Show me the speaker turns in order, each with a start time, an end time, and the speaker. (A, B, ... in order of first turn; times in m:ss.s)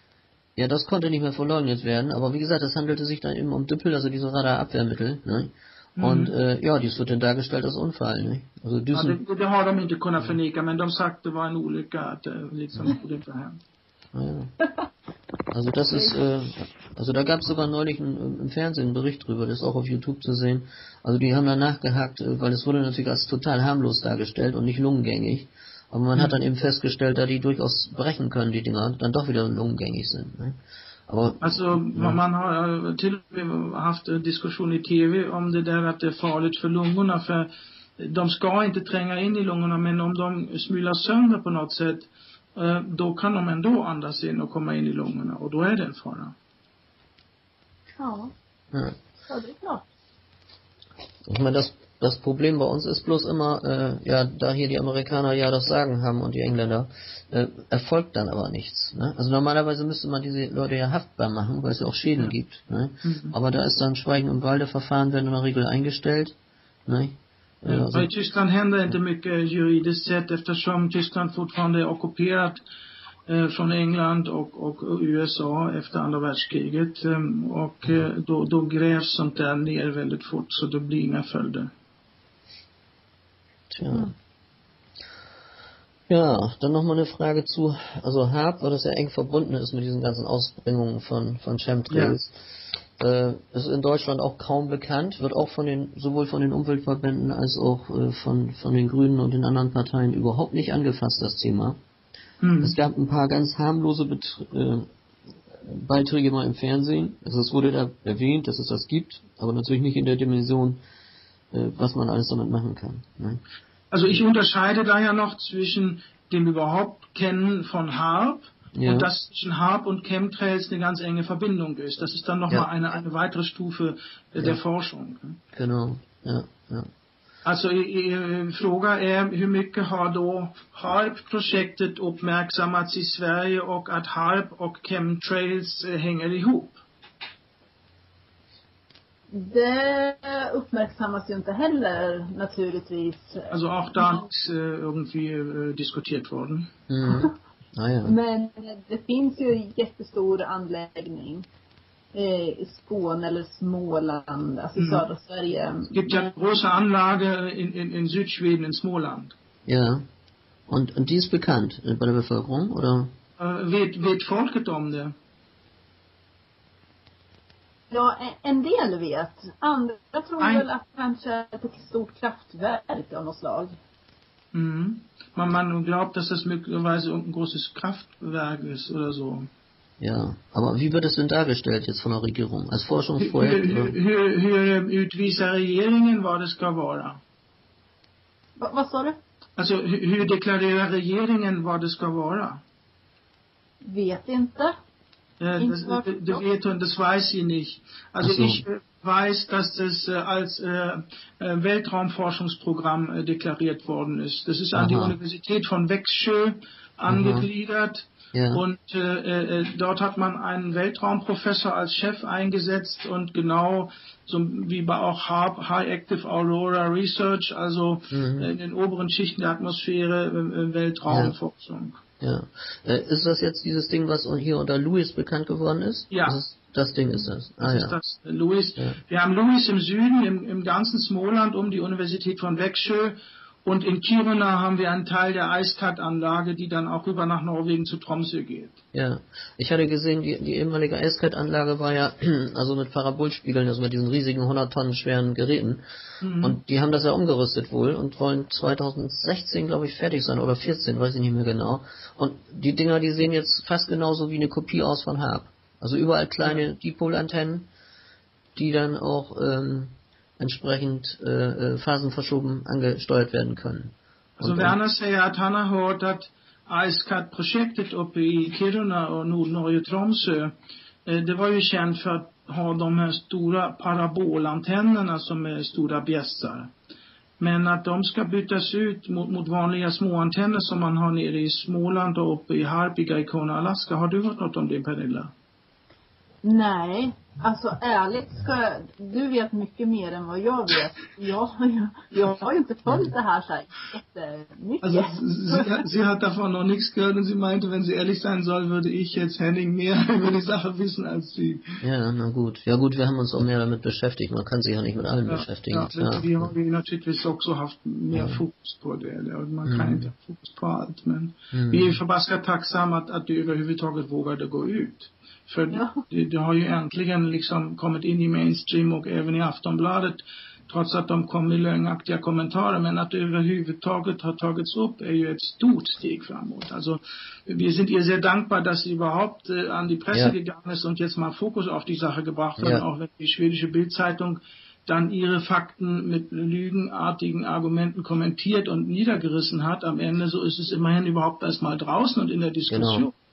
0:00.6-0:09.2 A
0:06.0-0:06.3 B
0:08.9-0:13.6 B
0:14.1-0:14.5 A
0:15.5-0:30.6 A
0:31.1-0:32.2 A
0:31.4-0:46.3 B
0:48.0-0:48.3 C
0:49.3-0:49.8 C
0:51.2-1:06.3 A
1:03.0-1:03.3 B
1:06.8-1:08.1 A
1:07.6-1:12.6 B
1:13.3-1:21.7 B
1:23.7-1:24.1 A
1:26.1-1:32.4 A
1:31.9-1:32.2 B
1:33.0-1:41.8 A
1:42.4-1:42.8 B
1:42.6-1:44.9 A
1:45.5-1:50.8 A
1:51.5-1:53.4 A
1:53.9-2:05.4 B
1:58.7-1:59.1 A
2:05.5-2:06.9 A
2:07.4-2:16.8 B
2:19.3-2:24.2 C
2:23.5-2:26.7 B
2:26.9-2:28.1 A
2:27.0-2:27.3 C
2:28.0-2:31.4 C
2:32.1-2:36.3 C
2:34.8-2:35.0 B
2:35.9-2:39.3 B
2:39.6-2:40.0 A
2:40.7-2:43.1 A
2:43.4-2:45.1 B
2:47.9-2:53.8 C
2:50.4-2:50.6 B
2:54.5-2:59.5 B
3:00.0-3:04.0 A
3:03.2-3:07.2 B
3:08.6-3:09.2 C
3:09.6-3:12.6 B
3:13.8-3:14.8 C
3:15.4-3:42.0 B
3:15.6-3:16.4 C
3:18.2-3:18.6 A
3:24.7-3:25.2 A
3:27.1-3:27.5 A
3:28.3-3:28.6 A
3:38.1-3:38.5 A
3:41.1-3:41.4 A
3:42.2-3:48.0 A
3:46.1-3:46.4 B
3:47.6-3:58.8 B
3:58.9-4:05.8 A
4:06.2-4:06.6 B
4:06.4-4:17.7 A
4:18.6-4:24.8 A
4:24.4-4:30.5 B
4:31.0-4:36.7 B
4:37.4-4:45.3 B
4:46.4-4:55.8 C
4:54.8-5:01.8 B
5:01.8-5:06.5 A
5:05.3-5:43.1 B
5:08.1-5:08.4 A
5:09.6-5:10.1 A
5:11.5-5:12.0 A
5:15.7-5:16.0 C
5:32.6-5:32.8 A
5:42.7-5:43.1 A